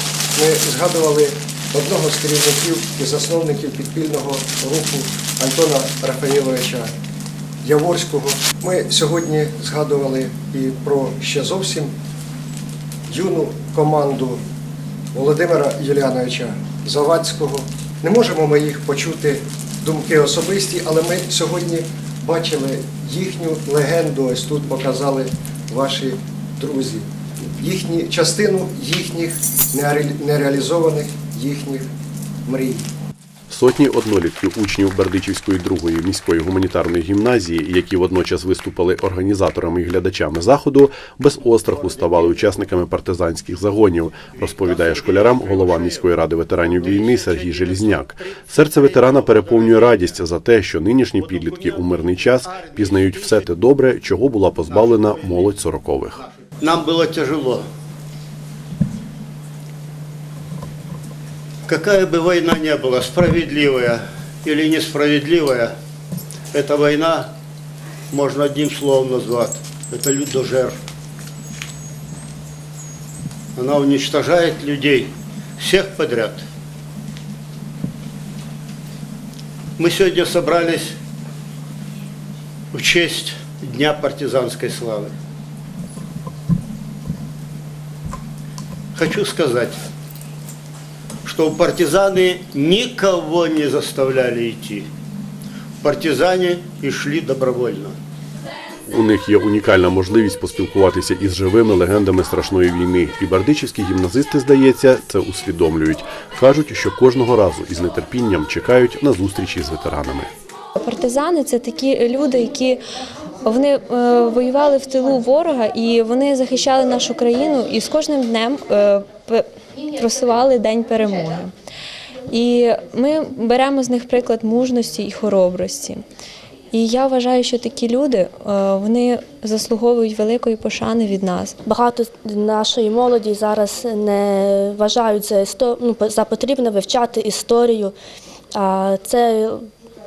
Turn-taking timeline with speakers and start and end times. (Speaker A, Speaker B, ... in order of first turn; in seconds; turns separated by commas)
Speaker A: 0.3-6.9, Speaker A: 7.6-11.9, Speaker A: 13.1-14.4, Speaker A: 15.1-31.9, Speaker A: 32.5-32.9, Speaker B: 33.5-56.2, Speaker C: 44.7-45.9, Speaker C: 47.0-48.0, Speaker C: 49.0-49.8, Speaker C: 56.6-57.6, Speaker C: 61.7-65.7, Speaker C: 66.5-67.3, Speaker C: 68.1-70.7, Speaker C: 73.6-76.4, Speaker C: 79.8-80.9, Speaker C: 82.7-85.1, Speaker C: 89.0-89.8, Speaker C: 91.3-94.9, Speaker C: 95.8-97.9, Speaker B: 98.9-110.3, Speaker D: 110.8-112.8, Speaker D: 113.4-121.5, Speaker D: 122.3-126.0, Speaker D: 126.7-131.6, Speaker E: 131.7-137.9, Speaker E: 138.6-139.7